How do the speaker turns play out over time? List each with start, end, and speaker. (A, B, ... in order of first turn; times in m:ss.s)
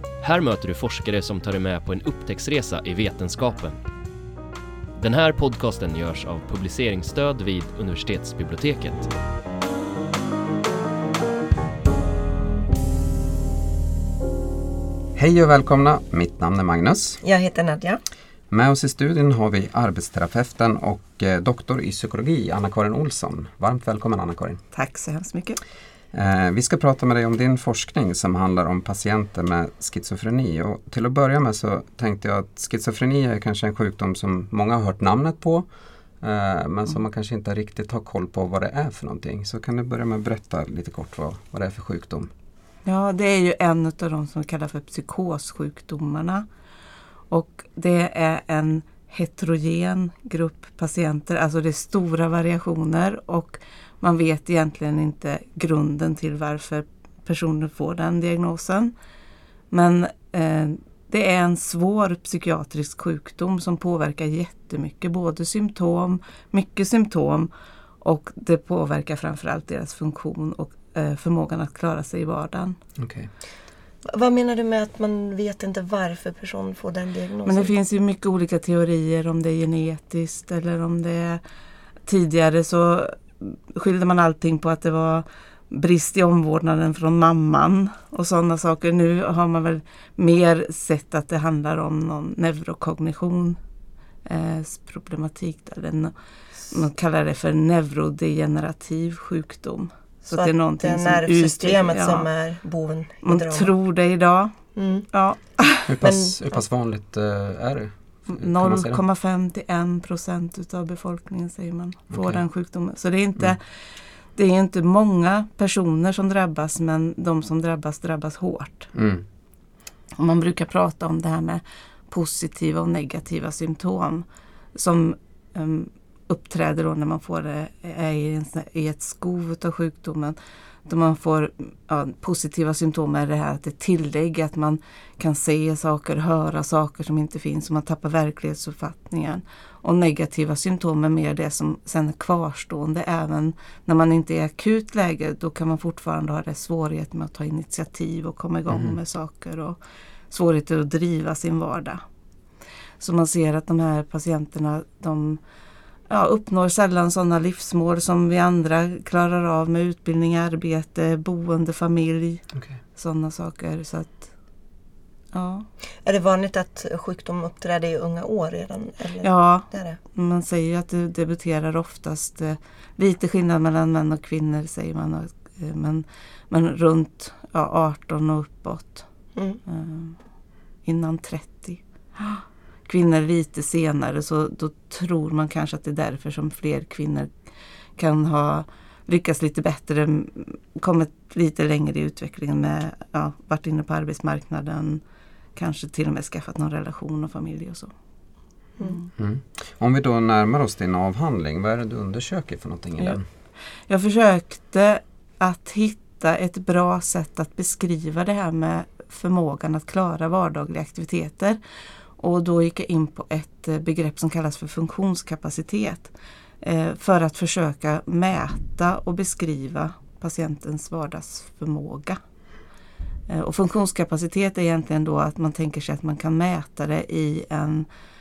0:00.2-0:03.8 A
0:05.0-0:09.1 A
0:15.2-0:17.2 B
0:17.2-0:18.0 C
0:18.5-0:24.6 B
0:24.7-0:25.6 D
0:26.1-0:35.7 B
0:36.2-0:42.3 B
0:42.8-0:46.5 D
0:47.3-0:58.9 D
0:59.7-1:07.5 D
1:08.0-1:12.8 D
1:13.0-1:13.3 B
1:14.1-1:17.7 C
1:17.4-1:21.4 D
1:22.1-1:33.6 D
1:34.3-1:42.3 D
1:40.3-1:43.7 C
1:43.2-1:44.6 D
1:44.8-1:45.1 C
1:45.1-1:45.9 D
1:45.9-1:49.0 B
1:46.0-1:46.4 C
1:48.3-1:53.8 D
1:52.1-1:52.4 B
1:54.4-1:58.9 D
1:58.9-1:59.2 B
2:00.2-2:29.8 D
2:28.7-2:29.0 B
2:30.3-2:32.0 D
2:33.0-2:35.4 D
2:36.1-2:42.4 D
2:43.0-2:44.3 D
2:45.3-2:45.7 D
2:46.0-2:50.0 C
2:49.2-2:59.1 D
2:59.4-2:59.6 C
2:59.7-3:00.2 D
3:00.8-3:07.3 D
3:08.0-3:15.0 D
3:15.6-3:17.9 D
3:18.8-3:19.1 D
3:19.2-3:23.2 B
3:23.9-3:31.6 D
3:32.2-3:42.2 D
3:43.3-3:47.9 D